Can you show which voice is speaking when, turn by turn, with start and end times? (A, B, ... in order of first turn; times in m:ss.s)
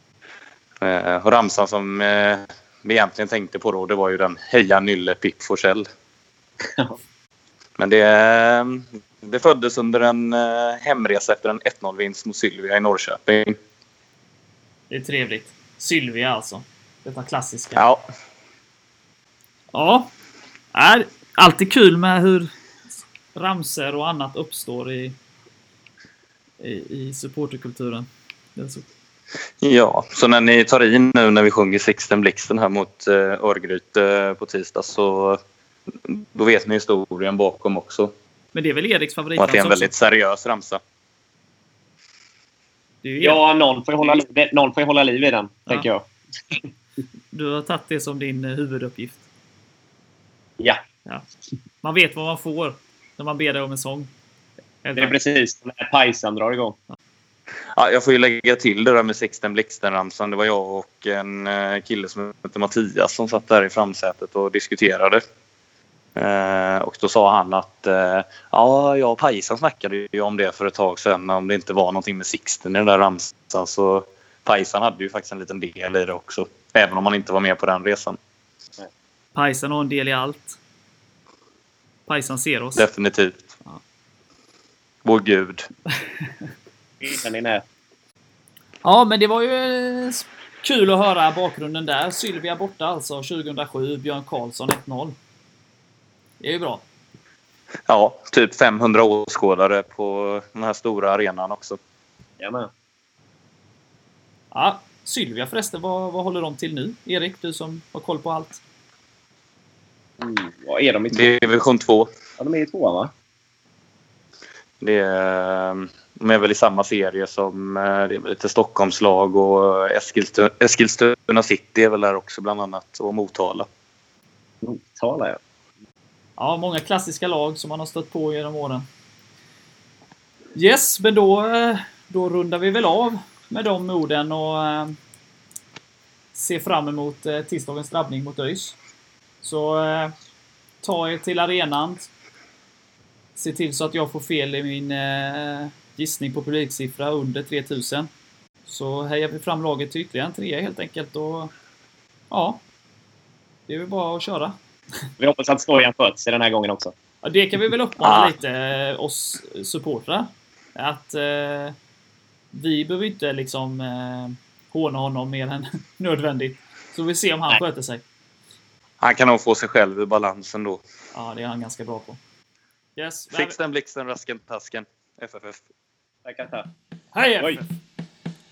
0:00.8-0:05.9 A
0:06.6-0:07.0 B
0:07.8-0:13.6 A
0:14.9-0:17.8 C
0:17.8-0:18.0 A
0:19.7-0:20.1 C
0:20.7-0:22.5 C
0:23.4-0:25.2 C
0:26.6-0:28.9 C
0:29.6-0:35.4 A
0:36.0-0:38.1 A
0:38.5-0:39.9 C
0:39.4-0:40.8 A
0:43.0-0:43.4 C
0:43.2-0:46.6 B
0:47.3-0:49.2 C
0:51.8-0:54.1 C
0:54.8-0:55.2 C
0:55.0-0:56.8 B
0:57.7-1:05.2 A
1:06.2-1:18.2 A
1:19.4-1:20.6 C
1:22.1-1:22.9 C
1:22.8-1:23.5 A
1:25.0-1:25.7 A
1:27.0-1:27.6 B
1:28.8-1:35.2 C
1:36.4-1:36.8 C
1:37.9-1:41.8 A
1:42.4-1:42.7 B
1:44.5-1:48.6 C
1:50.2-1:51.5 B
1:51.1-1:52.1 A
1:52.4-1:53.1 B
1:54.8-2:03.7 A
2:04.6-2:05.4 B
2:06.4-2:08.9 C
2:10.6-2:15.0 C
2:16.3-2:18.8 C
2:19.4-2:20.1 C
2:20.8-2:22.1 C
2:23.4-2:28.1 C
2:28.7-2:31.5 C
2:32.3-2:32.6 C
2:33.7-2:35.1 C
2:35.2-2:36.9 B
2:37.2-2:41.8 C
2:38.0-2:38.3 A
2:42.5-2:48.0 C
2:49.0-2:50.8 A
2:51.1-2:52.2 C
2:53.0-2:53.6 C
2:53.3-2:55.6 A
2:56.2-2:56.7 B
2:57.1-2:57.7 C